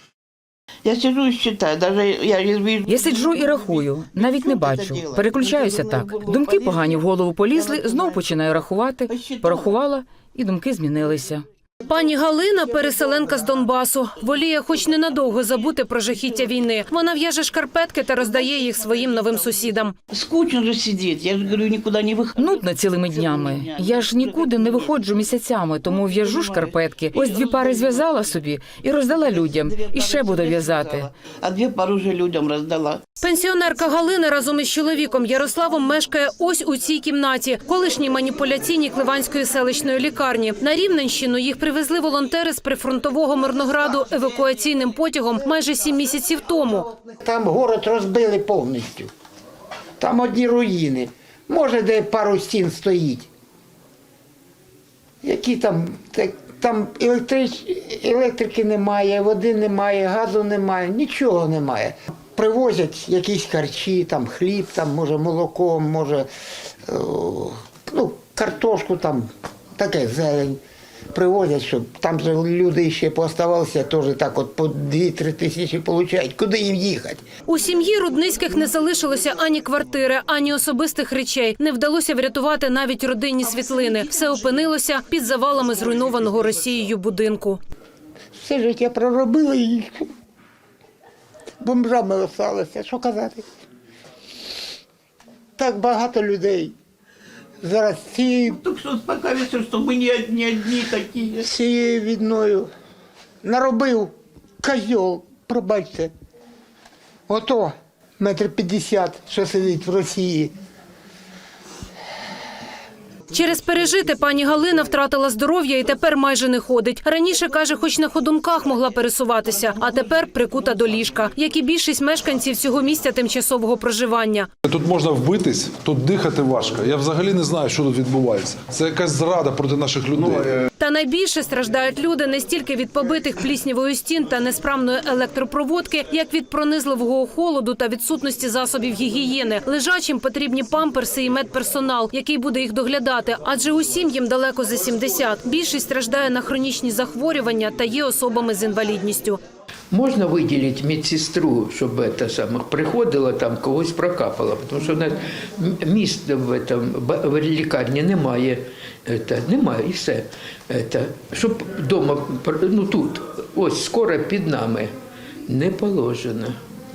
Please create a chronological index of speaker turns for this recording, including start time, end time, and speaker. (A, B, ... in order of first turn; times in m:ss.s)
0:00.8-0:08.4 A
0:02.9-0:11.4 B
0:09.1-0:09.8 A
0:11.9-0:19.9 C
0:13.0-0:13.5 A
0:14.9-0:15.7 A
0:18.2-0:25.3 A
0:22.4-0:31.1 B
0:25.8-0:28.4 A
0:29.1-0:33.0 A
0:33.2-0:46.9 C
0:47.2-0:49.1 D
0:50.0-0:53.3 D
0:55.2-1:06.3 D
1:06.8-1:10.6 D
1:11.1-1:17.2 D
1:17.5-1:27.6 C
1:28.4-1:30.1 D
1:31.6-1:33.4 D
1:35.6-1:36.8 D
1:37.6-1:38.6 D
1:38.5-1:41.4 A
1:41.4-1:42.7 D
1:43.4-1:46.1 D
1:47.3-1:50.5 D
1:53.3-2:04.5 C
2:04.6-2:10.5 E
2:10.8-2:29.4 C
2:29.9-2:44.9 F
2:45.5-2:46.6 F